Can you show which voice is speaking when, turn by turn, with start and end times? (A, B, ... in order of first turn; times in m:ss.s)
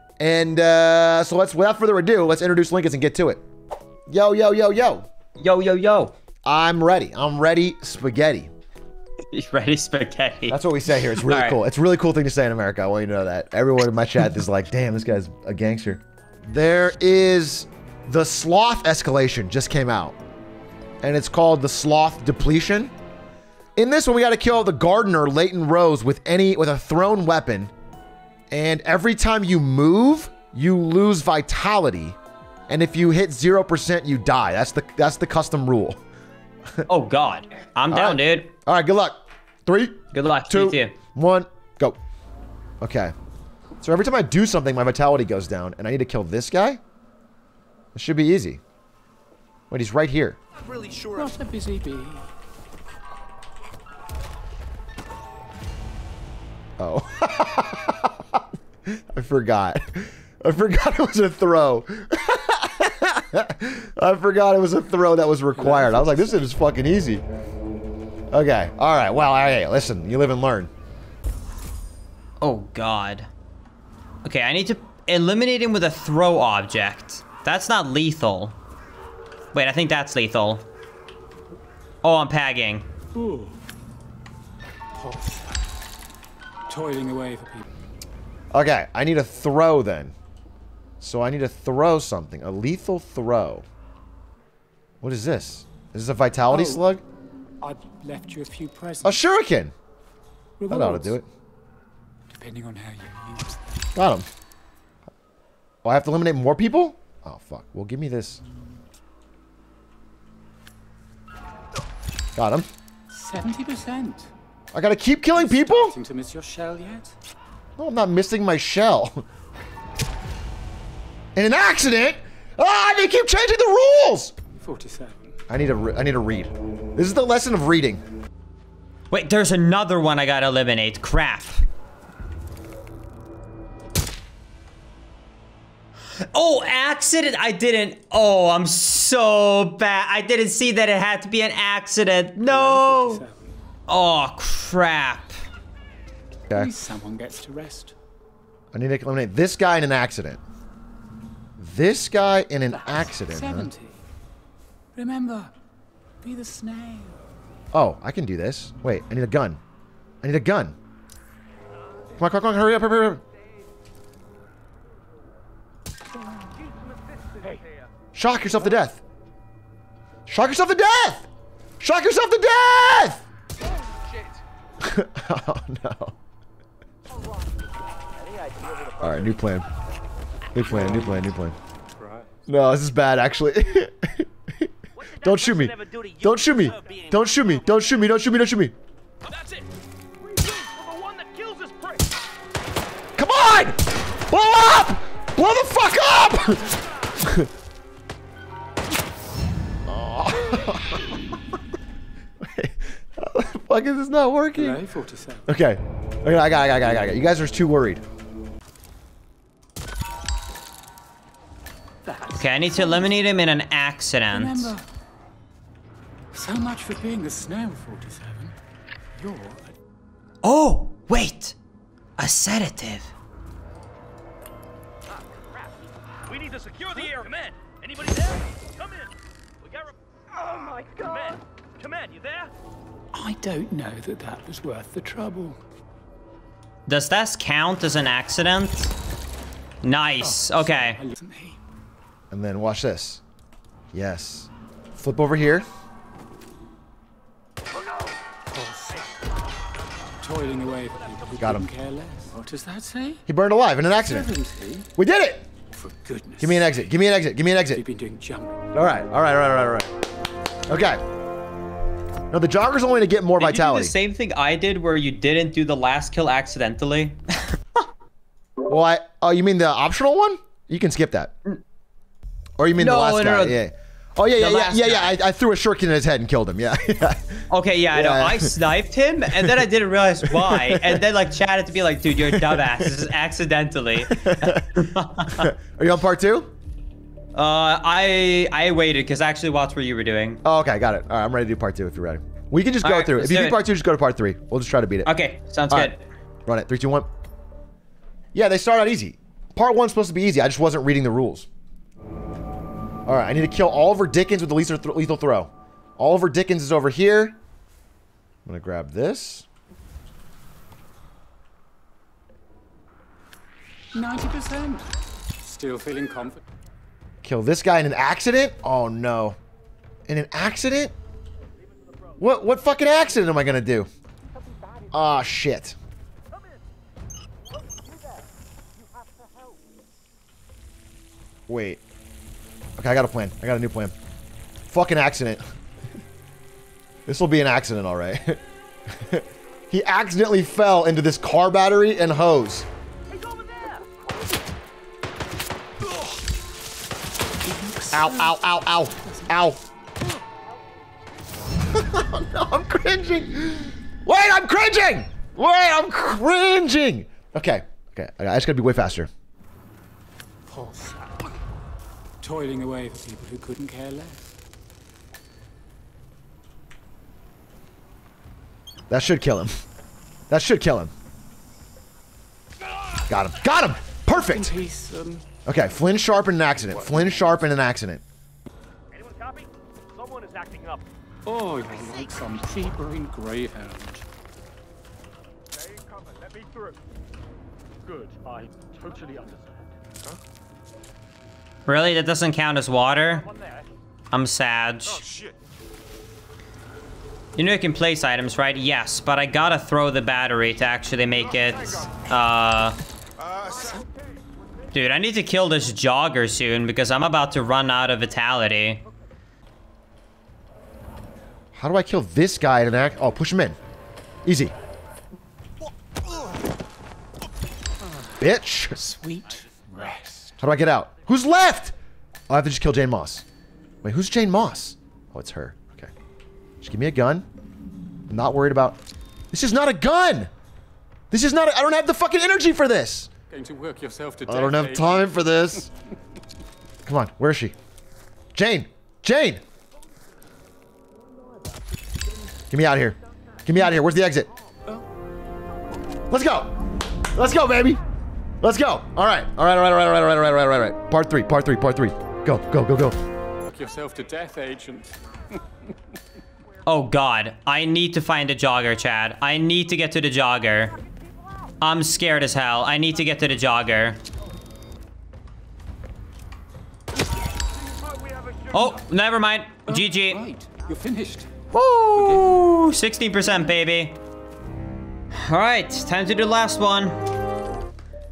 0:00.2-0:03.4 A
0:04.1-0:05.0 A
0:05.4-0:06.1 B
0:06.4-0:08.5 A
0:09.3-0:11.6 B
0:10.5-0:20.2 A
0:21.0-0:22.9 A
0:23.8-0:27.7 A
0:28.5-0:32.2 A
0:32.7-0:36.0 A
0:36.9-0:38.5 B
0:37.9-0:42.0 A
0:40.1-0:41.0 B
0:42.8-0:43.1 A
0:43.8-0:46.8 A
0:47.9-0:48.6 A
0:49.7-0:50.4 A
0:50.9-0:52.3 C
0:56.8-1:07.2 A
1:05.5-1:06.5 C
1:08.3-1:10.7 A
1:12.4-1:13.3 B
1:14.2-1:18.6 B
1:19.5-1:20.6 B
1:22.0-1:22.9 B
1:23.1-1:23.6 C
1:25.0-1:25.6 C
1:26.7-1:27.7 C
1:28.5-1:30.1 A
1:31.0-1:33.6 A
1:35.0-1:37.0 A
1:36.5-1:36.8 C
1:37.6-1:39.2 C
1:39.0-1:39.7 A
1:40.6-1:41.1 C
1:40.7-1:41.2 A
1:42.3-1:43.6 C
1:43.9-1:44.3 A
1:45.8-1:48.4 A
1:52.4-1:52.6 A
1:53.1-1:54.3 C
1:54.7-1:56.0 A
1:55.3-1:57.1 C
1:57.8-1:59.2 A
2:01.3-2:04.3 A
2:04.6-2:05.4 C
2:05.5-2:08.0 A
2:09.1-2:11.6 B
2:16.2-2:23.2 B
2:22.4-2:23.5 C
2:23.9-2:25.4 B
2:26.5-2:27.9 C
2:28.7-2:30.4 A
2:31.6-2:33.7 A
2:32.7-2:34.0 C
2:34.9-2:35.5 C
2:36.2-2:37.2 C
2:37.7-2:39.6 A
2:40.2-2:40.7 A
2:42.2-2:43.2 A
2:48.1-2:49.0 A
2:50.3-2:51.3 A
2:51.8-2:53.2 A
2:54.8-2:56.1 A
2:58.3-2:59.0 D
2:59.0-2:59.7 A
3:00.5-3:01.6 A
3:00.6-3:01.2 C
3:02.0-3:02.3 C
3:02.5-3:08.7 A
3:05.2-3:06.2 D
3:09.3-3:09.6 D
3:10.4-3:12.0 D
3:13.2-3:17.5 A
3:19.9-3:21.2 A
3:22.4-3:24.8 A
3:24.6-3:25.5 C
3:25.5-3:28.0 A
3:32.0-3:33.2 C
3:32.3-3:34.7 B
3:34.3-3:34.8 C
3:36.3-3:38.5 C
3:39.1-3:39.8 C
3:40.4-3:41.6 B
3:42.2-3:43.1 B
3:46.3-3:49.1 D
3:50.6-3:52.5 D
3:53.1-3:55.6 C
3:56.9-3:58.9 B
3:59.8-4:01.0 B
4:00.2-4:01.6 C
4:02.3-4:03.2 A
4:03.9-4:05.6 A
4:08.5-4:09.0 C
4:10.2-4:13.2 C
4:11.4-4:11.7 A
4:13.3-4:14.3 A
4:14.0-4:14.9 C
4:15.0-4:15.5 A
4:15.7-4:16.8 C
4:16.4-4:17.8 A
4:17.7-4:18.7 C
4:18.7-4:19.9 A
4:20.7-4:21.0 A
4:22.3-4:24.0 A
4:23.4-4:27.8 B
4:28.6-4:31.3 A
4:32.6-4:38.5 A
4:32.8-4:33.6 B
4:34.4-4:35.2 B
4:37.5-4:45.5 B
4:40.3-4:41.0 A
4:42.3-4:42.9 A
4:44.0-4:44.6 A
4:45.3-4:46.5 A
4:47.3-4:50.4 B
4:50.4-4:55.1 A
4:52.8-4:53.6 B
4:55.0-4:56.0 B
4:56.5-4:57.1 A
4:58.3-5:01.5 A
5:03.1-5:07.4 A
5:08.4-5:09.5 A
5:13.9-5:16.4 C
5:17.2-5:19.4 A
5:20.1-5:20.9 A
5:22.2-5:23.9 A
5:24.9-5:25.8 A
5:31.5-5:31.8 A
5:32.8-5:33.9 A
5:34.7-5:35.4 A
5:37.1-5:38.4 A
5:38.9-5:42.7 A
5:47.4-5:49.3 C
5:47.9-5:49.6 A
5:51.6-5:59.1 A
6:00.5-6:01.3 C
6:02.2-6:04.3 C
6:08.9-6:09.5 A
6:10.3-6:10.9 A
6:13.1-6:14.6 A
6:14.1-6:15.2 C
6:15.4-6:18.0 A
6:16.5-6:17.4 C
6:20.1-6:20.8 D
6:21.2-6:24.0 C
6:27.9-6:28.3 C
6:28.9-6:29.2 C
6:31.6-6:33.3 B
6:34.1-6:35.0 B
6:37.4-6:42.8 B
6:43.5-6:43.8 C
6:44.7-6:48.8 B
6:51.5-6:53.6 A
6:54.2-6:54.5 A
6:58.2-6:58.8 A
6:58.7-7:00.4 C
7:00.4-7:01.7 A
7:02.3-7:03.2 A
7:03.8-7:05.9 A
7:06.6-7:07.2 A
7:08.1-7:08.8 A
7:09.3-7:10.3 A
7:11.1-7:13.1 A
7:13.3-7:15.2 C
7:14.2-7:15.7 A
7:16.8-7:17.5 A
7:18.3-7:19.4 A
7:22.5-7:24.3 A
7:26.1-7:26.5 A
7:27.1-7:27.8 A
7:28.4-7:33.0 A
7:33.4-7:34.9 C
7:36.6-7:40.8 B
7:41.6-7:44.0 B
7:48.5-7:50.2 B
7:49.7-7:51.3 C
7:51.5-7:54.0 B
7:51.9-7:52.4 C
7:55.1-7:57.0 B